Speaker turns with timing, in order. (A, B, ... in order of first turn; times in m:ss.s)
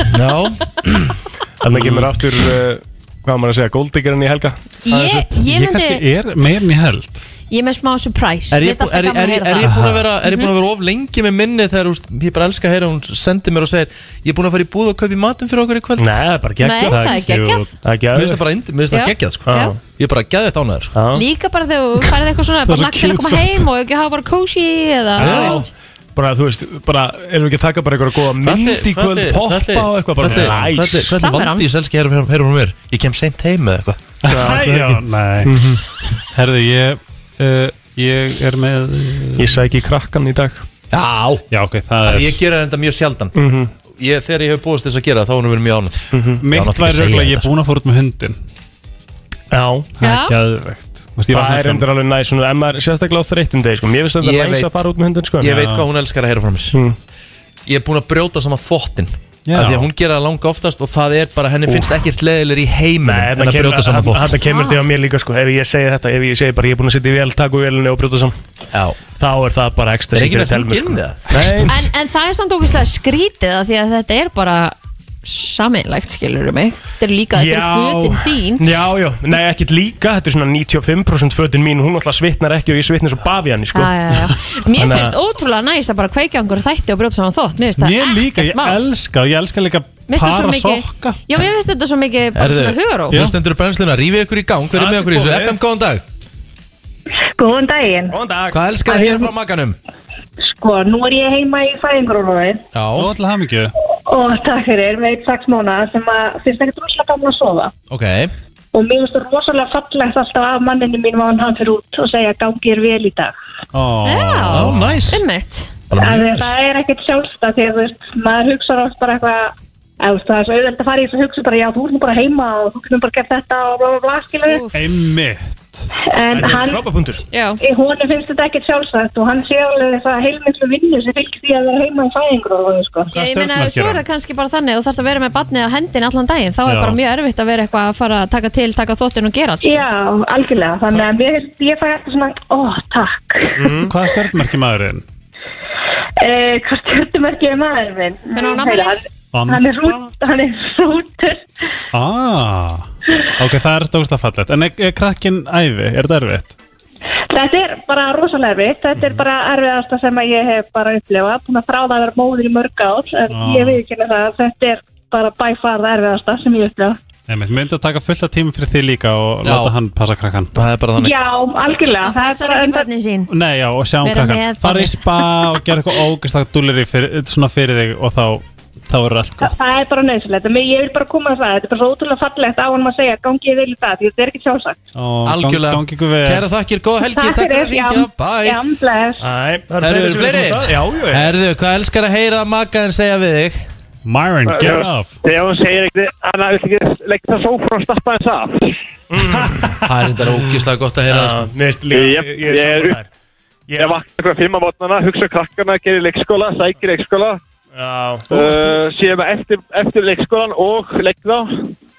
0:00.1-0:01.1 A
0:01.6-0:04.6 B
0:01.8-0:02.0 A
0:04.8-0:06.0 C
0:04.9-0:07.2 D
0:07.5-0:10.5 C
0:08.5-0:16.2 A
0:09.6-0:10.1 D
0:16.0-0:17.2 B
0:16.6-0:17.7 C
0:16.8-0:17.8 D
0:17.8-0:18.5 B
0:18.1-0:20.9 A
0:18.9-0:19.7 C
0:19.4-0:19.8 B
0:20.9-0:21.2 B
0:21.1-0:25.7 C
0:22.6-0:23.7 D
0:25.2-0:31.1 B
0:25.2-0:25.6 A
0:28.4-0:34.0 A
0:31.0-0:31.6 C
0:34.2-0:35.6 D
0:34.2-0:35.8 B
0:36.3-0:39.6 D
0:39.4-0:40.6 B
0:40.9-0:41.4 A
0:41.5-0:42.4 D
0:42.0-0:43.3 A
0:43.3-0:43.7 B
0:44.0-0:47.5 A
0:46.1-0:46.4 B
0:46.4-0:48.4 D
0:49.5-0:49.9 B
0:50.0-0:51.9 D
0:50.0-0:50.4 C
0:51.3-0:55.6 B
0:54.2-0:54.8 A
0:55.4-0:56.8 A
0:55.5-0:55.9 D
0:57.7-1:04.4 A
0:59.4-0:59.9 D
1:01.7-1:02.0 B
1:03.0-1:08.3 B
1:04.4-1:04.8 C
1:08.7-1:09.0 A
1:09.2-1:11.8 B
1:10.1-1:11.7 A
1:11.7-1:18.6 C
1:17.3-1:23.9 B
1:23.7-1:28.8 C
1:24.8-1:25.1 B
1:27.8-1:31.2 D
1:30.1-1:33.2 C
1:32.3-1:36.0 A
1:33.1-1:33.4 D
1:34.7-1:35.6 B
1:37.4-1:38.1 E
1:38.1-1:38.6 B
1:38.5-1:39.8 A
1:38.9-1:39.3 E
1:40.4-1:42.6 E
1:42.7-1:43.1 A
1:42.9-1:43.7 D
1:44.1-1:47.7 E
1:47.9-1:48.3 A
1:48.7-1:53.3 E
1:53.7-1:55.0 D
1:54.0-1:55.7 C
1:54.5-1:55.2 A
1:55.9-1:56.5 A
1:55.9-2:04.6 E
2:04.5-2:04.8 C
2:04.7-2:05.9 D
2:06.1-2:06.8 E
2:06.3-2:07.2 B
2:07.3-2:07.6 C
2:07.6-2:13.1 E
2:13.1-2:19.8 C
2:13.1-2:14.0 D
2:16.6-2:17.0 D
2:19.6-2:23.8 E
2:23.6-2:23.9 B
2:23.8-2:25.0 D
2:26.2-2:31.4 E
2:28.3-2:29.0 C
2:29.3-2:30.1 D
2:31.9-2:32.8 D
2:33.4-2:36.5 D
2:37.3-2:47.0 E
2:43.3-2:43.8 D
2:47.3-2:50.5 D
2:49.4-2:49.7 A
2:50.5-2:51.2 A
2:51.0-2:52.9 E
2:52.0-2:53.3 C
2:53.3-2:59.5 D
2:54.0-2:55.6 C
2:59.4-3:04.9 E
3:04.9-3:06.5 D
3:05.2-3:08.6 A
3:07.0-3:09.2 E
3:09.2-3:11.3 B
3:09.8-3:13.7 A
3:14.0-3:15.2 D
3:14.6-3:18.7 F
3:19.1-3:19.7 B
3:19.8-3:21.5 A
3:21.1-3:23.1 B
3:21.9-3:23.0 F
3:23.7-3:24.0 B
3:23.8-3:27.4 F
3:27.7-3:28.6 B
3:28.3-3:31.7 F
3:28.4-3:28.8 D